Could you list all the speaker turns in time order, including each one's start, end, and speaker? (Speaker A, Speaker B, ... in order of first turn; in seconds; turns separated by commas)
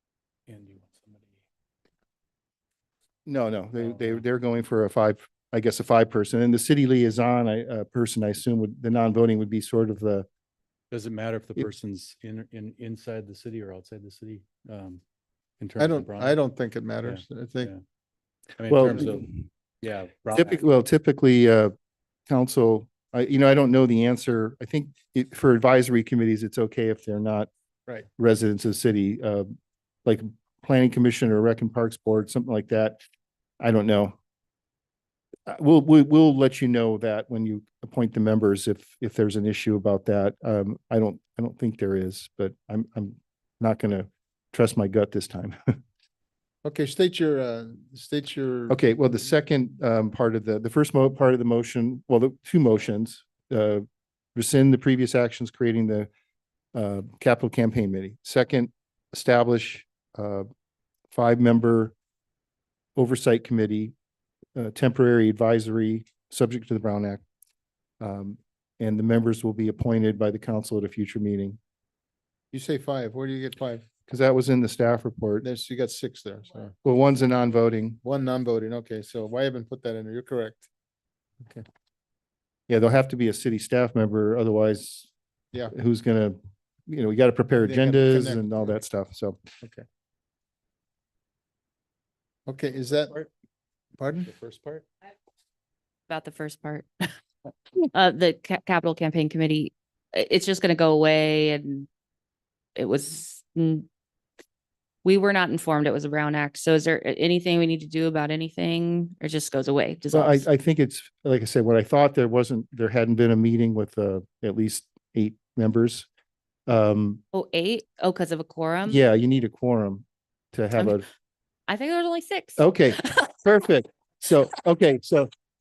Speaker A: 0.5-1.4, Speaker B: 3.2-10.2, Speaker A: 3.9-4.2, Speaker A: 10.9-15.0, Speaker A: 15.6-16.4, Speaker C: 15.8-17.7, Speaker A: 17.1-17.8, Speaker A: 18.6-19.3, Speaker B: 18.7-19.3, Speaker A: 19.8-20.6, Speaker B: 20.3-21.7, Speaker B: 22.3-27.5, Speaker B: 28.2-29.5, Speaker B: 30.0-33.0, Speaker B: 33.6-34.1, Speaker B: 35.5-45.7, Speaker C: 46.6-48.8, Speaker B: 48.7-56.1, Speaker B: 56.7-60.5, Speaker B: 61.1-61.9, Speaker B: 63.0-63.9, Speaker B: 64.5-67.2, Speaker B: 68.0-71.6, Speaker C: 72.5-73.8, Speaker B: 74.1-75.4, Speaker C: 75.4-76.7, Speaker B: 76.8-78.0, Speaker C: 78.0-80.7, Speaker B: 82.7-85.1, Speaker B: 85.7-89.4, Speaker C: 87.6-88.4, Speaker C: 92.5-93.2, Speaker C: 94.0-94.3, Speaker A: 94.2-94.8, Speaker D: 96.1-97.1, Speaker D: 97.9-101.9, Speaker D: 102.8-103.8, Speaker D: 105.0-110.5, Speaker B: 110.1-116.1, Speaker B: 116.7-117.2, Speaker D: 117.3-119.0, Speaker B: 118.9-121.0, Speaker D: 121.7-123.2, Speaker B: 122.6-125.3